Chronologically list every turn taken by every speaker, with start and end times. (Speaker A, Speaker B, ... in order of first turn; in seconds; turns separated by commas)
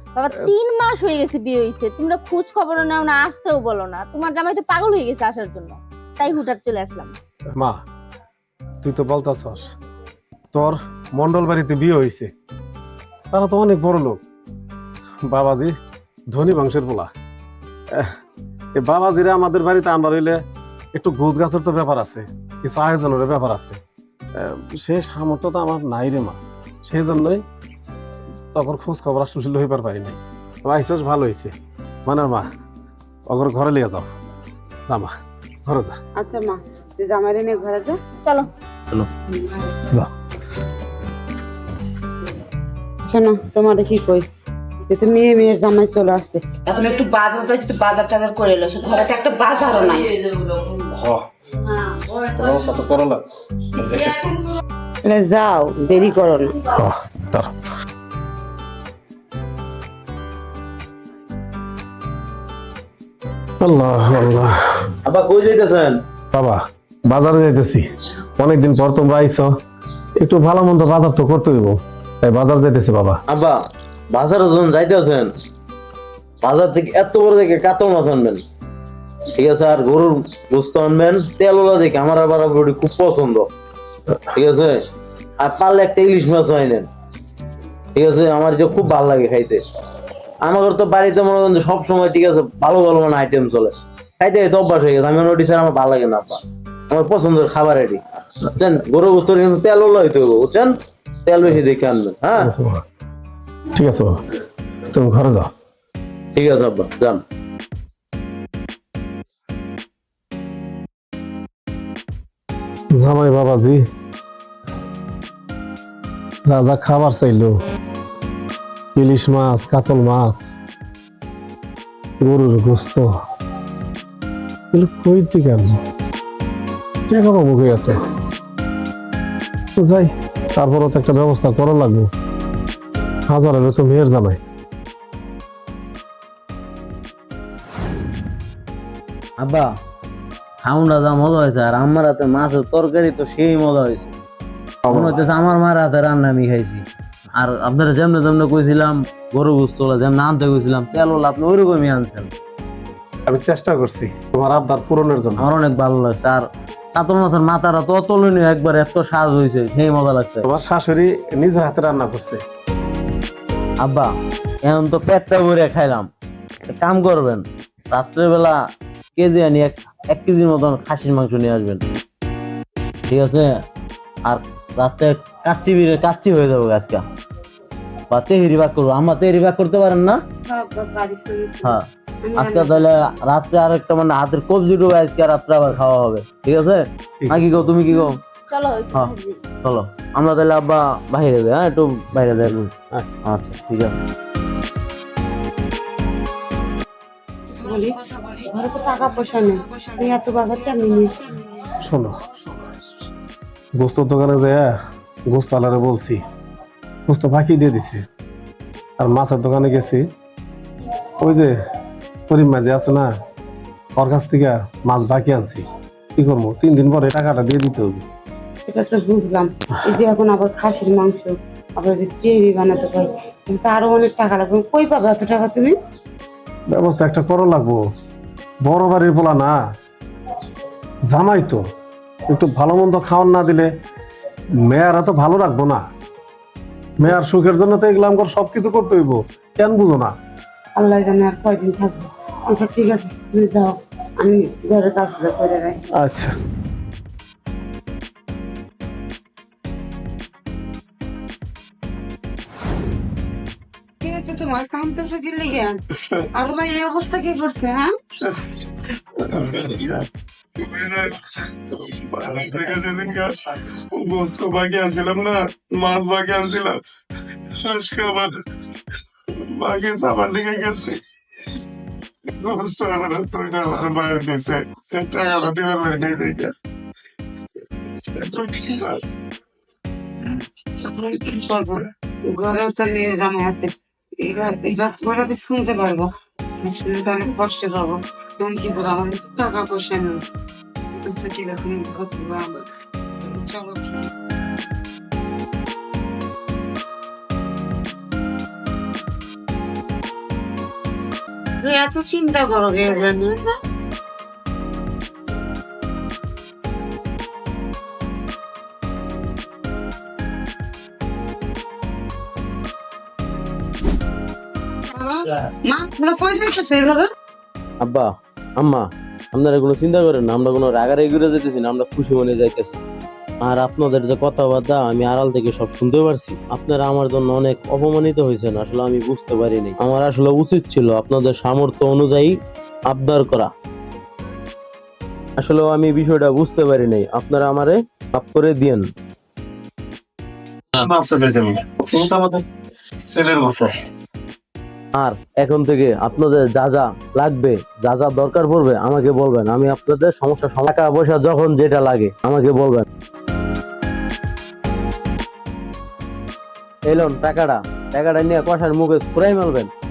Speaker A: 0.1-7.1, Speaker B: 8.8-9.7, Speaker B: 10.5-12.3, Speaker B: 13.3-14.2, Speaker B: 15.3-15.7, Speaker B: 16.3-17.1, Speaker B: 18.8-20.4, Speaker B: 20.9-23.8, Speaker B: 24.4-27.4, Speaker B: 28.5-31.5, Speaker B: 32.0-32.5, Speaker B: 33.3-34.1, Speaker B: 34.9-35.1, Speaker B: 35.6-36.0, Speaker C: 36.2-38.0, Speaker C: 43.1-44.2, Speaker C: 44.9-50.1, Speaker B: 50.9-51.2, Speaker B: 52.2-54.3, Speaker C: 55.0-56.5, Speaker B: 56.7-57.5, Speaker B: 63.6-64.9, Speaker D: 65.0-66.0, Speaker B: 66.3-67.9, Speaker B: 68.4-69.5, Speaker B: 70.2-73.2, Speaker D: 73.3-73.6, Speaker D: 74.1-75.3, Speaker D: 76.4-78.4, Speaker D: 79.3-83.5, Speaker D: 84.3-84.8, Speaker D: 85.4-86.9, Speaker D: 87.9-89.6, Speaker D: 90.4-98.0, Speaker D: 98.5-100.7, Speaker D: 101.2-102.5, Speaker B: 102.4-102.8, Speaker B: 103.7-104.2, Speaker B: 104.9-105.5, Speaker D: 106.3-107.2, Speaker B: 112.9-113.8, Speaker B: 116.5-117.6, Speaker B: 118.9-120.5, Speaker B: 122.2-123.1, Speaker B: 124.7-125.8, Speaker B: 127.1-128.0, Speaker B: 129.8-132.1, Speaker B: 133.3-134.4, Speaker D: 139.4-139.7, Speaker D: 140.6-144.1, Speaker B: 144.8-145.2, Speaker D: 144.9-146.8, Speaker D: 147.3-152.3, Speaker B: 153.3-155.5, Speaker D: 155.4-160.4, Speaker B: 160.4-162.4, Speaker D: 163.8-164.1, Speaker D: 164.6-166.1, Speaker D: 166.7-168.6, Speaker D: 169.2-171.8, Speaker D: 173.1-173.5, Speaker D: 174.2-177.0, Speaker D: 178.1-180.2, Speaker C: 180.4-182.9, Speaker D: 182.3-188.2, Speaker B: 187.2-187.7, Speaker A: 187.9-189.3, Speaker D: 189.6-192.7, Speaker D: 193.2-194.0, Speaker C: 197.5-201.4, Speaker B: 201.8-202.2, Speaker B: 203.8-204.7, Speaker B: 205.3-206.2, Speaker B: 207.1-208.0, Speaker B: 209.0-210.0, Speaker B: 211.2-211.5, Speaker B: 212.3-213.1, Speaker B: 214.0-215.6, Speaker B: 216.2-218.0, Speaker C: 218.7-225.8, Speaker B: 226.7-227.8, Speaker B: 228.6-229.6, Speaker B: 231.1-231.6, Speaker B: 232.3-233.7, Speaker B: 234.7-235.8, Speaker B: 237.0-240.1, Speaker C: 240.8-245.8, Speaker B: 246.0-246.3, Speaker C: 254.0-255.8, Speaker C: 256.3-257.9, Speaker E: 259.2-260.0, Speaker E: 260.6-261.1, Speaker E: 261.7-266.8, Speaker E: 267.6-268.4, Speaker E: 269.4-271.0, Speaker E: 272.4-276.5, Speaker E: 278.1-279.0, Speaker C: 280.8-290.2, Speaker C: 291.0-292.6, Speaker C: 293.3-294.1, Speaker C: 301.6-303.4, Speaker C: 314.9-317.1, Speaker D: 317.8-322.8, Speaker D: 323.4-332.4, Speaker D: 332.9-333.5, Speaker D: 335.4-338.8, Speaker B: 340.8-342.4, Speaker B: 343.0-343.7, Speaker D: 344.9-352.8, Speaker D: 356.9-359.7